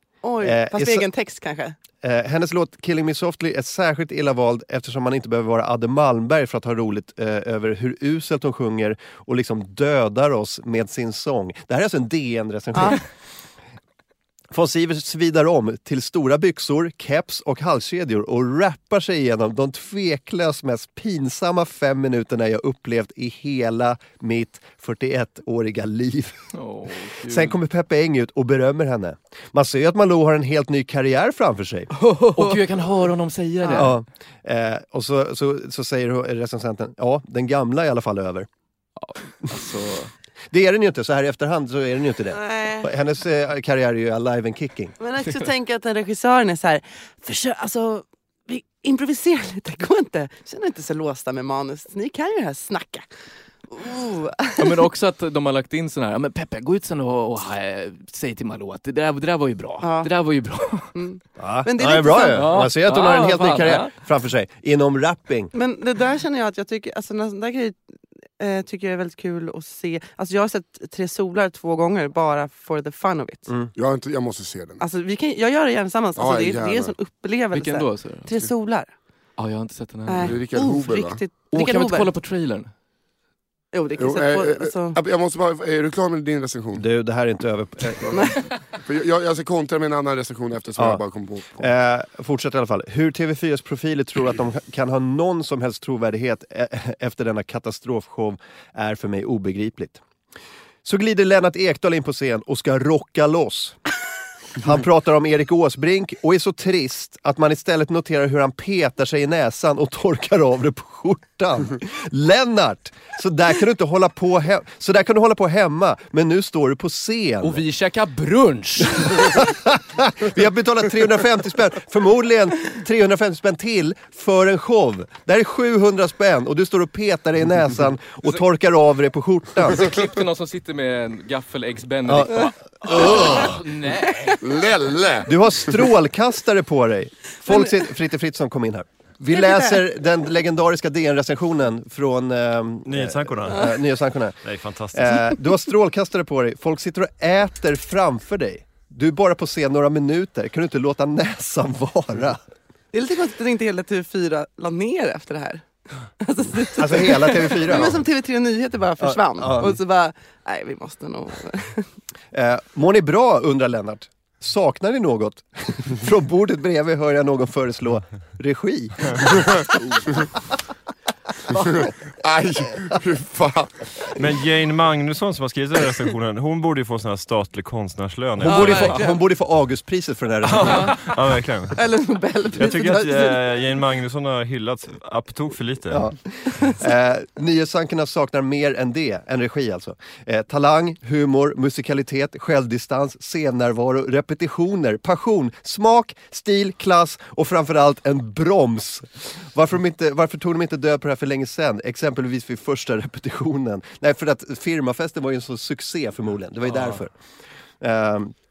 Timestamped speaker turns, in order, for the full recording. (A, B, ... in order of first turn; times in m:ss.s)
0:00.2-0:01.8 A
0:00.4-0:01.1 B
0:02.0-0:13.0 B
0:12.7-0:13.0 A
0:14.5-0:26.4 B
0:26.5-0:27.6 C
0:27.3-0:31.9 B
0:32.0-0:34.0 C
0:32.0-0:32.6 A
0:33.8-0:38.5 B
0:39.0-0:40.1 C
0:40.5-0:44.9 B
0:42.3-0:42.9 A
0:45.0-0:53.1 A
0:53.7-0:54.8 A
0:54.6-1:00.9 C
0:59.8-1:00.1 A
1:01.0-1:02.6 A
1:01.4-1:05.5 B
1:02.3-1:03.9 C
1:05.5-1:07.8 A
1:08.4-1:13.5 A
1:13.8-1:14.8 D
1:14.8-1:18.9 A
1:16.2-1:17.0 D
1:17.5-1:18.3 C
1:19.4-1:20.3 C
1:20.1-1:22.1 A
1:20.2-1:21.2 D
1:21.5-1:22.7 C
1:23.7-1:25.0 A
1:24.0-1:26.8 D
1:26.8-1:28.3 B
1:28.1-1:28.5 A
1:28.8-1:31.7 D
1:30.8-1:31.0 B
1:31.6-1:40.0 B
1:40.8-1:43.8 B
1:44.6-1:57.6 B
1:57.4-1:59.4 C
1:59.1-2:09.9 B
2:09.7-2:14.4 C
2:12.1-2:13.5 B
2:14.4-2:15.3 D
2:15.3-2:32.4 B
2:17.5-2:17.8 A
2:19.3-2:19.8 A
2:22.9-2:23.7 E
2:24.4-2:25.2 E
2:32.9-2:35.7 A
2:36.2-2:41.9 A
2:36.8-2:38.0 B
2:39.0-2:39.8 B
2:42.3-2:49.5 B
2:51.5-2:54.0 D
2:54.2-2:59.0 E
2:58.4-3:01.0 B
2:58.4-2:59.2 A
3:00.4-3:01.8 E
3:00.6-3:01.0 A
3:01.7-3:03.6 A
3:02.5-3:06.1 E
3:05.9-3:27.1 B
3:27.8-3:28.3 B